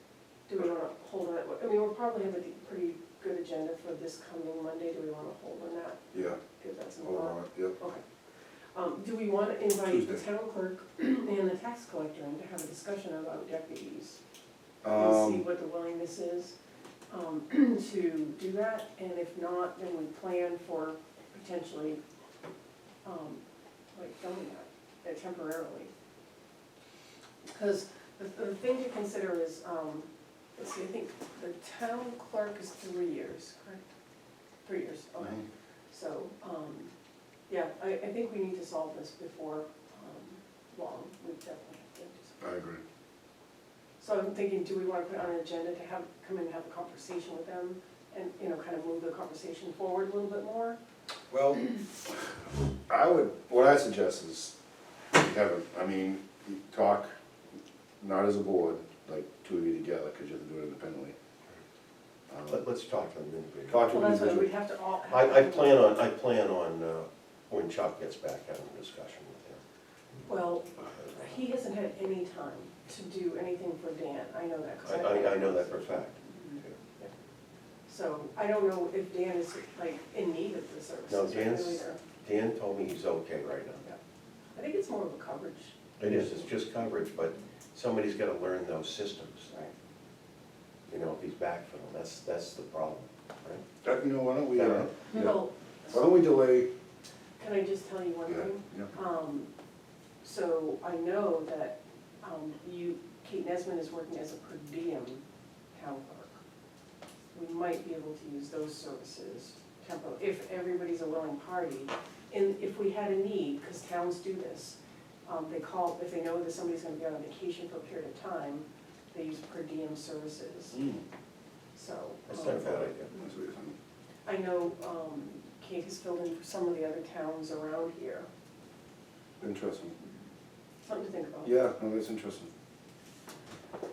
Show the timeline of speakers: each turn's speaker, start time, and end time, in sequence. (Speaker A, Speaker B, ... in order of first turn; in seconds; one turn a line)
Speaker A: 0.5-8.0
Speaker B: 6.1-6.4
Speaker B: 7.0-7.8
Speaker A: 8.7-14.2
Speaker B: 9.9-10.2
Speaker B: 14.8-15.5
Speaker A: 14.9-16.5
Speaker A: 17.1-22.0
Speaker A: 23.1-23.4
Speaker A: 23.9-25.9
Speaker A: 27.5-33.8
Speaker A: 34.6-36.9
Speaker A: 37.5-42.4
Speaker B: 42.4-42.8
Speaker A: 44.0-50.8
Speaker B: 51.3-51.8
Speaker B: 52.9-54.5
Speaker B: 55.1-57.1
Speaker B: 58.0-61.1
Speaker B: 62.3-62.6
Speaker C: 62.5-64.0
Speaker B: 63.7-64.5
Speaker A: 63.9-66.0
Speaker C: 65.0-69.6
Speaker A: 70.2-77.1
Speaker C: 74.8-76.7
Speaker A: 77.9-82.0
Speaker C: 81.1-83.9
Speaker A: 84.5-86.5
Speaker C: 86.0-89.5
Speaker C: 90.9-93.7
Speaker B: 93.8-96.7
Speaker C: 94.5-94.9
Speaker A: 95.1-96.0
Speaker A: 97.4-99.5
Speaker B: 98.3-98.9
Speaker A: 100.2-105.2
Speaker A: 105.7-106.4
Speaker A: 107.3-120.8
Speaker B: 120.7-121.0
Speaker A: 121.8-123.0
Speaker C: 122.3-123.1
Speaker B: 123.1-123.8
Speaker A: 124.3-128.3
Speaker B: 129.4-129.9
Speaker A: 130.8-131.6
Speaker B: 131.4-132.5